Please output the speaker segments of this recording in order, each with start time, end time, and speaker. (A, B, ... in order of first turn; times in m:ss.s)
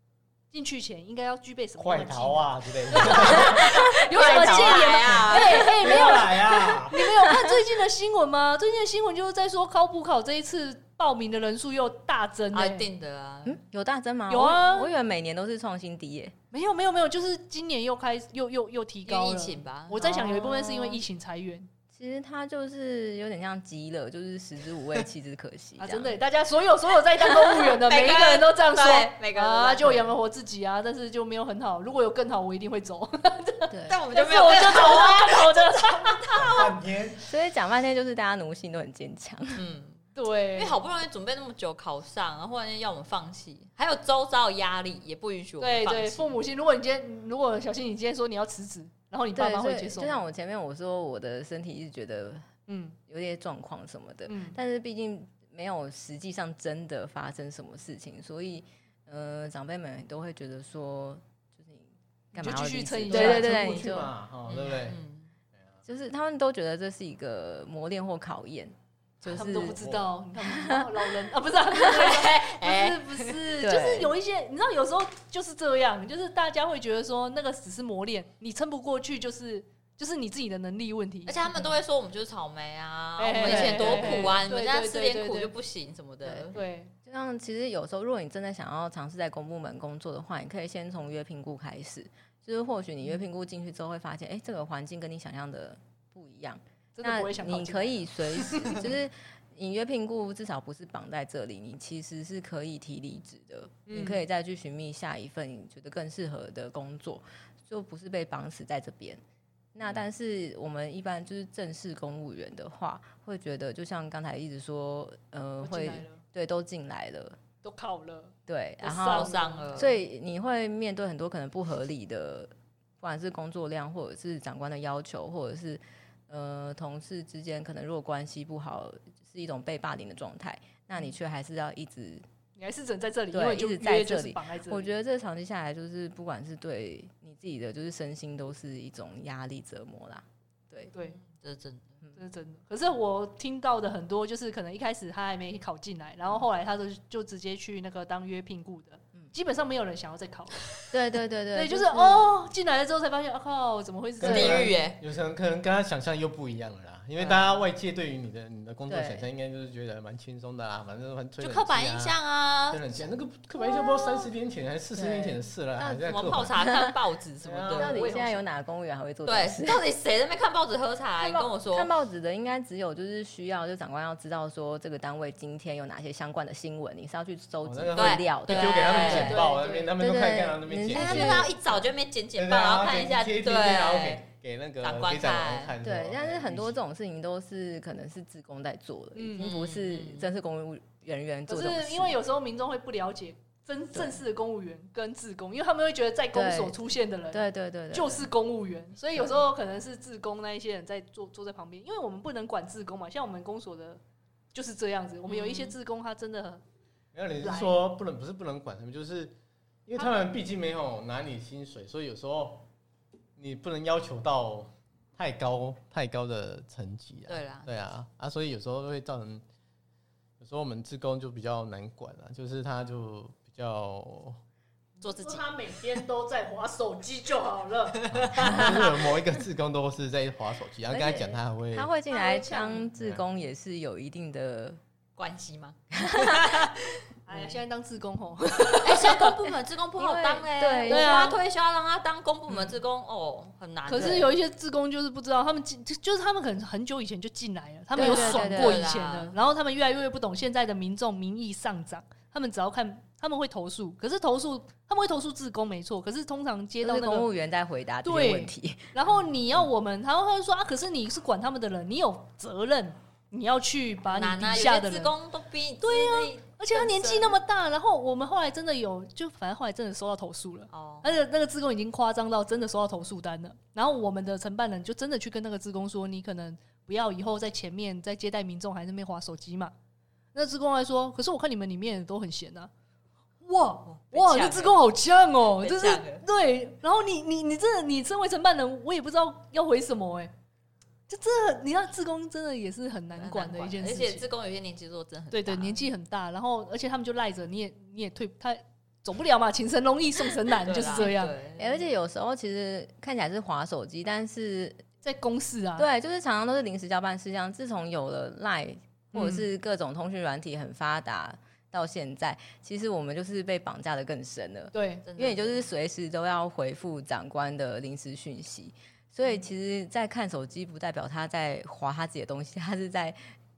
0:00.5-0:12.9 A
0:01.8-0:03.6 B
0:03.1-0:06.0 C
0:03.2-0:05.7 D
0:05.8-0:07.0 B
0:07.2-0:07.6 D
0:12.5-0:13.6 C
0:13.4-0:16.4 D
0:14.3-0:14.9 A
0:16.5-0:21.7 A
0:19.1-0:21.0 C
0:21.9-0:26.2 D
0:25.8-0:36.7 A
0:27.4-0:30.1 C
0:33.7-0:34.0 D
0:33.9-0:36.7 C
0:36.3-0:37.2 B
0:37.2-0:39.6 D
0:39.6-0:40.0 C
0:40.2-0:40.8 A
0:40.5-0:46.4 C
0:45.6-0:50.2 A
0:49.4-0:52.5 D
0:52.7-0:53.0 A
0:53.1-1:04.1 D
0:54.3-0:54.6 A
1:02.4-1:04.1 A
1:03.1-1:05.0 B
1:04.5-1:05.3 C
1:05.8-1:09.8 D
1:09.2-1:21.5 A
1:09.8-1:10.0 B
1:10.4-1:11.1 D
1:11.8-1:13.4 C
1:13.6-1:14.1 D
1:21.3-1:26.6 C
1:23.2-1:25.5 A
1:23.4-1:24.4 D
1:26.5-1:26.9 A
1:27.0-1:49.2 D
1:37.0-1:38.9 A
1:43.9-1:44.2 A
1:49.8-1:57.4 D
1:55.6-1:56.2 A
1:57.6-1:59.7 A
1:58.5-2:12.2 D
1:58.9-2:00.0 C
2:12.6-2:14.9 A
2:13.3-2:20.9 D
2:20.9-2:21.2 A
2:21.2-2:22.0 C
2:22.2-2:30.8 A
2:30.9-2:32.3 D
2:31.5-2:34.8 A
2:34.2-2:42.2 B
2:34.2-2:35.0 C
2:37.2-2:37.6 C
2:38.9-2:39.3 D
2:41.4-2:43.1 C
2:42.7-2:46.6 B
2:43.7-2:44.3 A
2:45.0-2:46.9 D
2:46.0-2:48.4 C
2:47.4-2:48.1 B
2:47.7-2:49.8 D
2:49.2-2:51.9 C
2:51.2-3:01.5 D
2:57.6-3:01.5 B
2:58.0-2:59.5 C
2:58.9-2:59.9 A
3:00.9-3:04.3 C
3:02.4-3:06.8 B
3:04.8-3:05.7 C
3:05.8-3:12.2 D
3:09.2-3:09.5 A
3:09.4-3:10.3 C
3:11.5-3:24.0 A
3:16.3-3:16.8 D
3:17.3-3:18.3 D
3:24.5-3:26.6 A
3:25.3-3:25.8 C
3:27.1-3:29.4 B
3:27.4-3:27.8 A
3:29.9-3:32.7 B
3:33.4-3:39.4 B
3:37.3-3:37.7 C
3:40.4-3:44.4 B
3:45.0-3:45.5 C
3:45.0-3:48.6 A
3:48.0-3:48.8 C
3:48.1-3:51.9 B
3:50.9-3:54.8 D
3:52.1-3:52.9 A
3:53.0-3:53.2 B
3:55.2-3:57.5 C
3:55.9-3:56.6 D
3:57.3-3:59.3 A
3:58.8-4:04.3 C
4:00.0-4:01.4 D
4:00.9-4:01.4 A
4:03.9-4:17.3 A
4:08.0-4:08.8 D
4:08.0-4:09.3 C
4:16.8-4:18.9 D
4:18.0-4:25.1 A
4:24.1-4:27.4 C
4:25.8-4:39.7 A
4:30.7-4:31.1 C
4:40.3-4:42.7 A
4:43.4-4:50.3 A
4:43.9-4:44.8 C
4:45.6-4:46.2 C
4:51.1-4:54.3 A
4:53.2-4:55.9 C
4:55.3-5:01.4 A
5:00.6-5:01.8 C
5:01.6-5:04.8 D
5:05.0-5:05.9 A
5:05.8-5:23.2 D
5:09.1-5:09.5 A
5:14.7-5:15.1 A
5:15.0-5:15.6 C